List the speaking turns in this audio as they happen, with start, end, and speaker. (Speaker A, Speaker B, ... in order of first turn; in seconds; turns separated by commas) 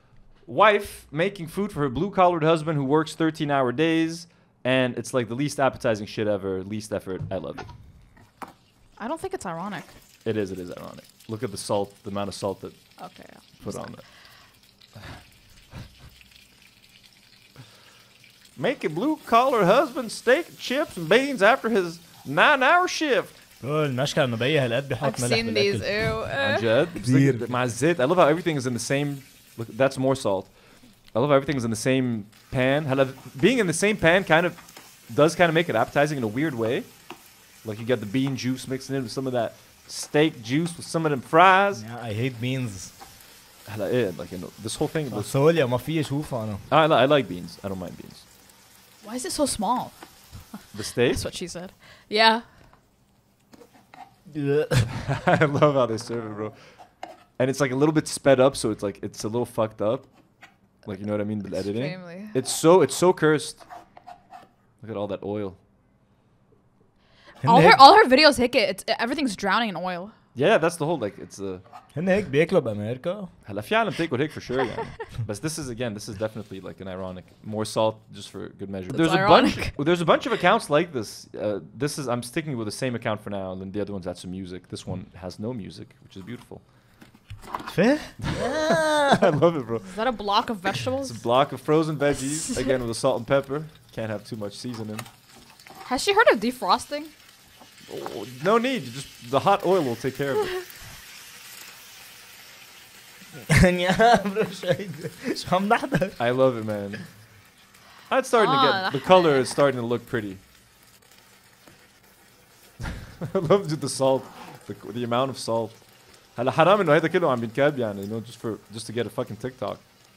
Speaker A: 0.5-7.7, Speaker B: 9.0-9.9, Speaker A: 10.2-12.8, Speaker B: 13.0-14.1, Speaker A: 13.6-14.0, Speaker A: 18.6-23.3, Speaker C: 23.6-26.1, Speaker B: 25.0-26.7, Speaker A: 26.4-30.5, Speaker C: 27.0-27.5, Speaker A: 31.1-34.6, Speaker A: 35.1-36.9, Speaker A: 37.6-41.8, Speaker C: 41.8-42.9, Speaker A: 43.7-45.3, Speaker C: 45.1-46.7, Speaker A: 46.7-48.3, Speaker B: 49.0-50.0, Speaker A: 50.7-51.2, Speaker B: 51.1-52.5, Speaker C: 54.3-54.9, Speaker A: 54.9-56.5, Speaker A: 57.4-60.1, Speaker A: 60.9-63.6, Speaker B: 61.5-62.4, Speaker A: 64.8-65.6, Speaker C: 67.4-67.8, Speaker B: 67.5-70.1, Speaker A: 70.3-71.6, Speaker C: 71.9-73.3, Speaker A: 73.4-86.6, Speaker B: 78.9-79.7, Speaker C: 87.7-89.1, Speaker A: 89.1-89.9, Speaker B: 89.8-91.2, Speaker A: 91.1-95.1, Speaker B: 95.9-97.1, Speaker A: 97.9-100.5, Speaker C: 103.5-106.2, Speaker A: 106.2-107.0, Speaker A: 108.1-110.4, Speaker B: 108.4-109.4, Speaker A: 112.8-115.8, Speaker A: 116.4-119.8